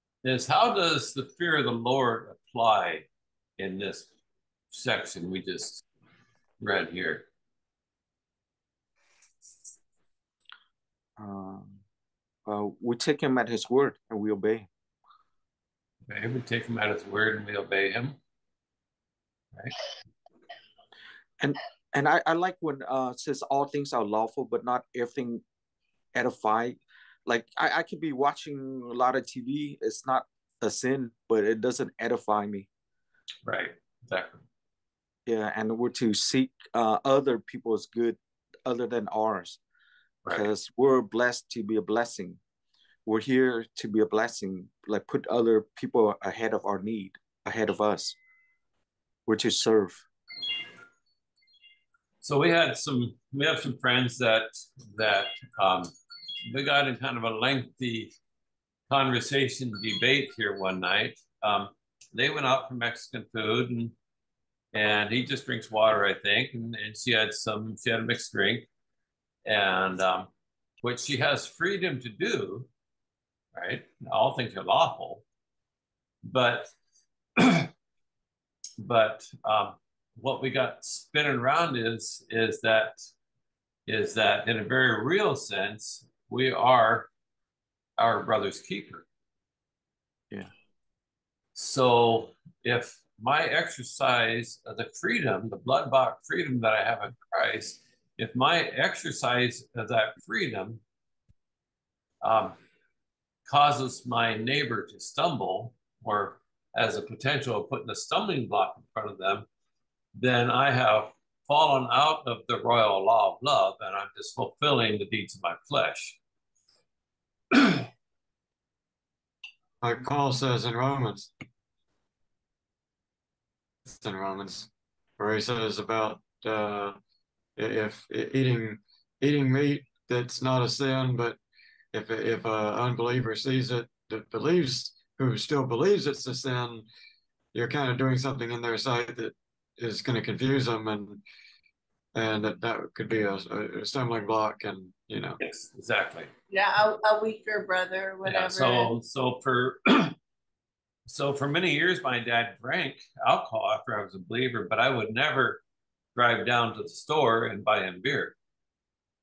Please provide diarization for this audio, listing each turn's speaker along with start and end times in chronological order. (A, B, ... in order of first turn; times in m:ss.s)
0:00.2-0:03.1 A
0:03.6-0:04.1 A
0:04.7-0:05.8 A
0:06.6-0:07.3 A
0:11.2-0:11.8 B
0:12.4-0:14.7 B
0:16.0-0:18.2 A
0:21.4-0:25.4 B
0:26.1-0:32.7 B
0:33.4-0:34.4 A
0:35.2-0:39.6 B
0:40.3-0:42.4 B
0:43.0-0:48.2 B
0:49.3-0:50.0 B
0:52.2-0:55.9 A
0:56.4-0:58.1 A
0:58.9-1:03.9 A
1:04.7-1:08.7 A
1:09.4-1:10.3 A
1:10.8-1:12.7 A
1:13.5-1:15.2 A
1:16.2-1:16.7 A
1:17.4-1:17.7 A
1:18.8-1:23.0 A
1:23.9-1:27.1 A
1:28.0-1:29.0 A
1:31.6-1:40.8 A
1:42.2-1:42.6 A
1:43.5-1:49.5 A
1:50.1-1:56.2 A
1:57.5-1:57.8 A
1:59.8-2:01.3 C
2:03.9-2:07.0 C
2:07.6-2:11.4 C
2:11.9-2:16.9 C
2:17.5-2:21.2 C
2:22.1-2:25.4 C
2:25.4-2:26.3 A
2:26.5-2:28.9 D
2:28.2-2:30.2 A
2:31.1-2:35.6 A
2:36.1-2:38.3 A